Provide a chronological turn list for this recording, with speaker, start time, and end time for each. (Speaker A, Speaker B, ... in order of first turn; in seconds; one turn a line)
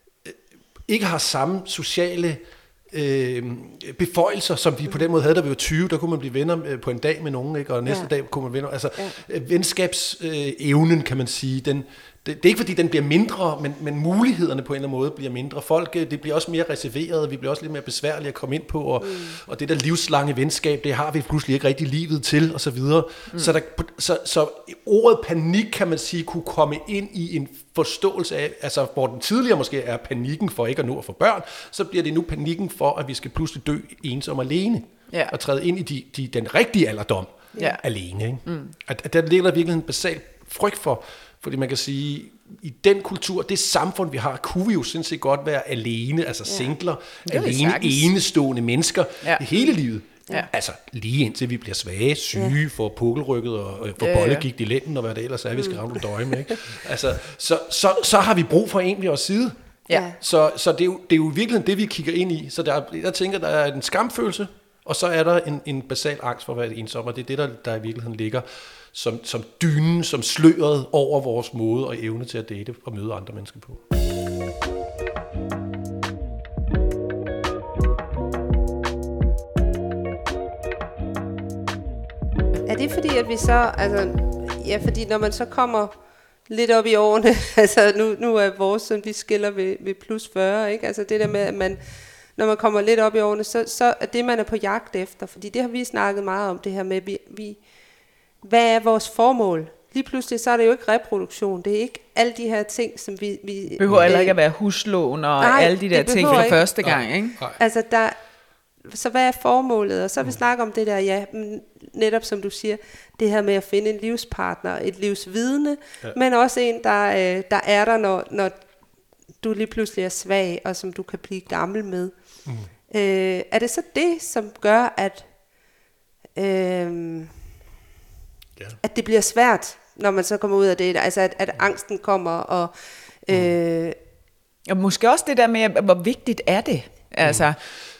Speaker A: 0.2-73.8
Speaker B: 19.0-19.3
Speaker C: 37.6-37.8
Speaker C: 38.4-38.7
Speaker C: 47.3-48.1
Speaker C: 54.0-54.4
Speaker B: 59.9-60.1
Speaker B: 82.7-85.9
Speaker B: 86.5-91.8
Speaker B: 92.4-97.5
Speaker B: 98.5-104.4
Speaker C: 103.8-107.4
Speaker A: 103.8-104.1
Speaker B: 105.4-106.6
Speaker A: 106.2-107.6
Speaker B: 107.6-108.1
Speaker B: 108.9-118.5
Speaker B: 119.4-122.1
Speaker B: 122.9-125.2
Speaker B: 126.4-127.3
Speaker B: 128.8-132.7
Speaker B: 133.2-133.9
Speaker C: 134.7-137.6
Speaker A: 137.2-137.5